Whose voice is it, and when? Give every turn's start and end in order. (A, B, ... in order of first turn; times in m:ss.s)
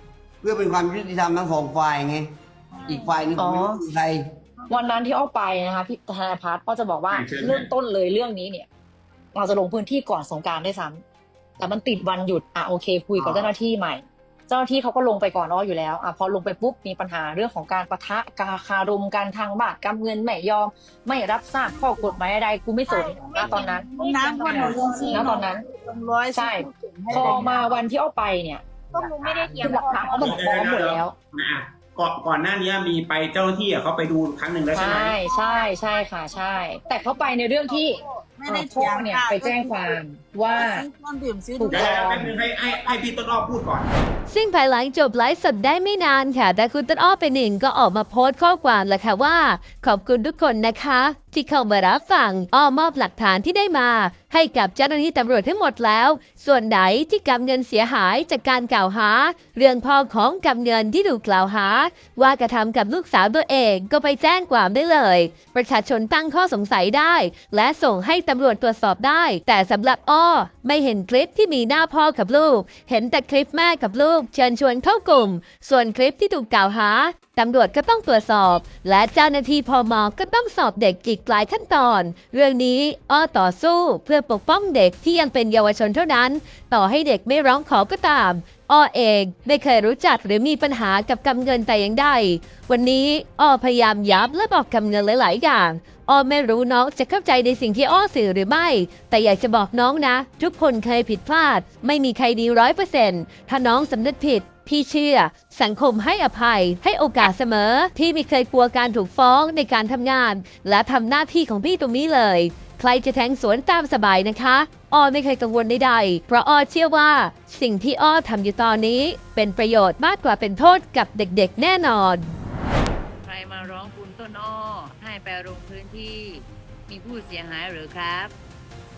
0:00.4-0:02.3 A
0:02.9-0:04.2 A
0:02.9-0:03.8 B
0:04.7-0:08.7 B
0:07.1-0:07.7 C
0:09.3-0:11.0 B
0:11.6-0:25.6 B
0:13.2-0:13.5 A
0:21.8-0:22.0 D
0:22.9-0:25.3 D
0:23.3-0:27.8 E
0:26.3-0:28.6 B
0:28.9-0:30.6 D
0:29.0-0:30.2 E
0:29.4-0:31.1 B
0:30.2-0:35.2 C
0:34.7-0:40.9 B
0:36.3-0:42.2 E
0:41.6-0:42.3 B
0:41.7-0:43.9 C
0:44.3-2:02.2 F
2:03.2-2:08.3 G